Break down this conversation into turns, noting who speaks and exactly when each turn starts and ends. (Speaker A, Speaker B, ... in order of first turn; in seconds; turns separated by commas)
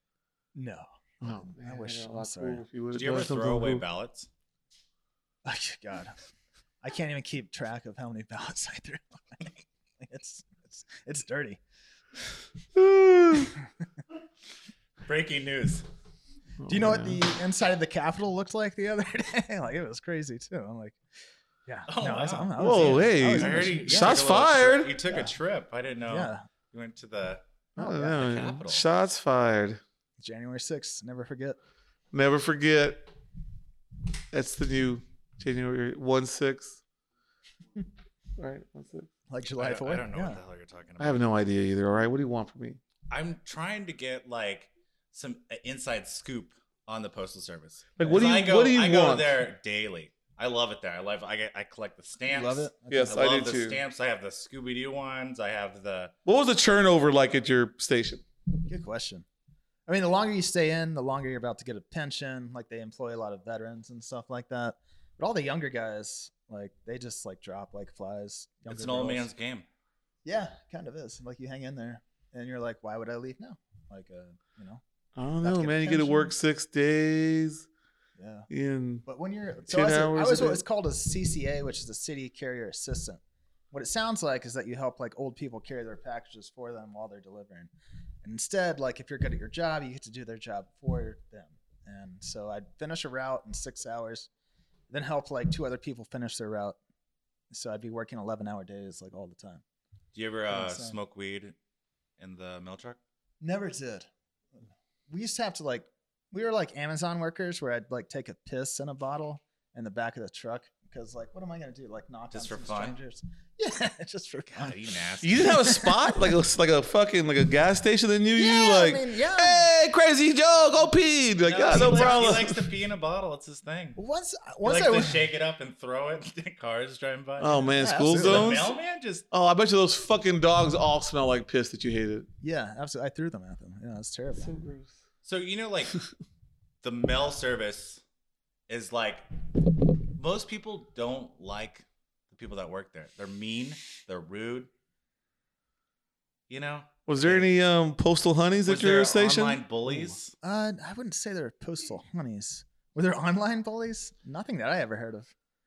Speaker A: 0.6-2.6, Speaker B: 1.2-3.8, Speaker C: 2.9-4.3, Speaker A: 5.4-6.2, Speaker A: 6.8-11.6, Speaker B: 12.7-13.5, Speaker C: 15.1-15.8, Speaker B: 16.6-17.2, Speaker A: 16.7-21.0, Speaker A: 21.7-24.3, Speaker C: 21.9-27.4, Speaker B: 22.6-24.9, Speaker A: 26.1-26.4, Speaker A: 27.8-28.3, Speaker B: 27.8-29.8, Speaker C: 28.1-28.9, Speaker A: 30.2-31.6, Speaker B: 32.1-33.1, Speaker B: 34.3-36.8, Speaker B: 38.4-39.1, Speaker A: 39.3-40.4, Speaker C: 39.6-41.2, Speaker B: 41.0-42.8, Speaker C: 43.1-56.1, Speaker B: 48.0-49.4, Speaker A: 52.3-53.3, Speaker B: 52.9-53.8, Speaker B: 56.3-58.2, Speaker A: 58.7-59.2, Speaker A: 59.9-69.3, Speaker C: 68.7-69.7, Speaker A: 70.2-74.8, Speaker B: 75.2-77.7, Speaker A: 75.4-76.3, Speaker A: 78.2-78.5, Speaker B: 78.5-79.0, Speaker A: 79.1-83.2, Speaker B: 79.7-80.6, Speaker A: 83.7-87.7, Speaker A: 88.2-94.3, Speaker A: 94.9-96.8, Speaker A: 97.5-99.6, Speaker C: 100.1-101.6, Speaker A: 100.5-101.0, Speaker C: 102.2-103.0, Speaker A: 103.4-114.8, Speaker C: 112.3-113.0, Speaker C: 114.6-115.5, Speaker B: 115.2-122.7, Speaker A: 115.4-116.3, Speaker A: 118.3-119.7, Speaker C: 121.4-124.0, Speaker A: 121.7-122.3, Speaker A: 124.0-125.2, Speaker C: 124.6-129.2, Speaker B: 127.4-128.7, Speaker A: 127.8-128.7, Speaker B: 129.3-132.3, Speaker A: 132.4-134.6, Speaker B: 134.4-135.0, Speaker C: 135.2-136.0, Speaker C: 136.8-138.0, Speaker C: 138.7-139.2, Speaker C: 140.2-144.7, Speaker C: 146.5-147.5, Speaker B: 147.1-150.1, Speaker C: 148.7-150.3, Speaker A: 150.4-155.3